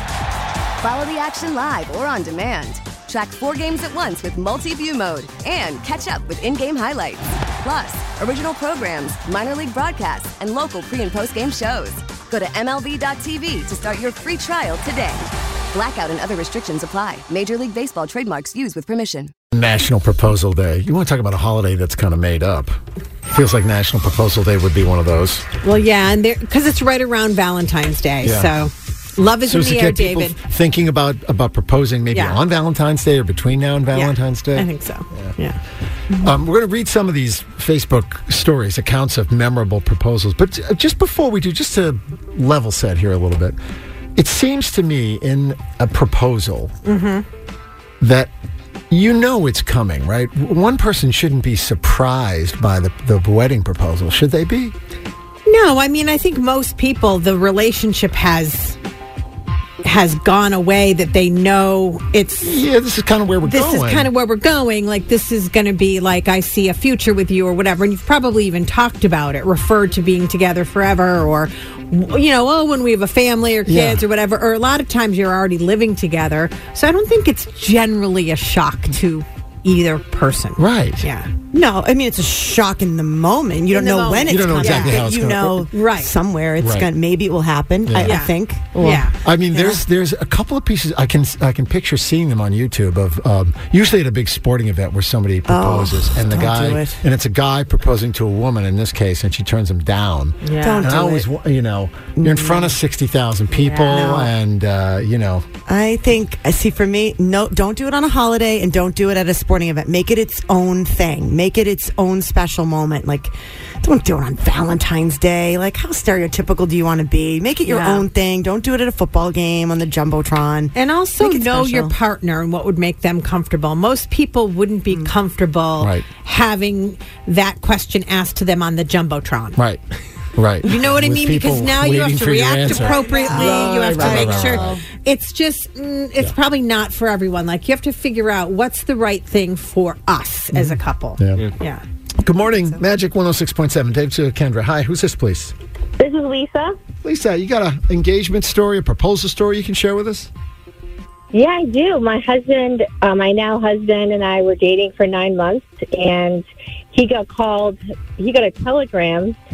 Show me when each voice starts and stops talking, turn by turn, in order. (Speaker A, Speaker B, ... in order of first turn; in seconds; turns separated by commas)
Speaker A: 0.8-19.3, Speaker B: 19.5-22.8, Speaker B: 23.3-25.4, Speaker C: 25.6-30.4, Speaker B: 28.2-28.5, Speaker B: 29.4-35.3, Speaker C: 32.1-32.4, Speaker C: 33.9-35.6, Speaker B: 36.1-43.6, Speaker B: 44.1-46.7, Speaker C: 46.8-47.2, Speaker B: 48.0-48.3, Speaker B: 48.9-54.7, Speaker C: 55.5-58.8, Speaker C: 59.8-62.6, Speaker B: 62.4-64.1, Speaker C: 63.4-81.3, Speaker B: 73.7-74.0, Speaker B: 80.6-81.0, Speaker D: 81.5-89.8, Speaker C: 83.7-85.0, Speaker B: 84.3-85.7, Speaker C: 85.7-86.1, Speaker B: 86.6-86.9, Speaker B: 87.8-88.2, Speaker C: 88.0-89.1, Speaker B: 89.2-105.5, Speaker D: 95.5-97.0, Speaker C: 100.4-100.9, Speaker D: 100.6-101.3, Speaker D: 102.2-102.8, Speaker C: 103.5-104.0, Speaker D: 103.9-104.3, Speaker D: 105.7-121.9, Speaker C: 117.6-118.1, Speaker C: 120.7-129.6, Speaker B: 125.8-126.0, Speaker B: 130.3-134.8, Speaker C: 130.7-141.8, Speaker D: 132.7-134.8, Speaker B: 140.5-141.5, Speaker B: 142.2-145.5, Speaker E: 146.0-146.7, Speaker B: 147.0-150.3, Speaker E: 151.3-159.3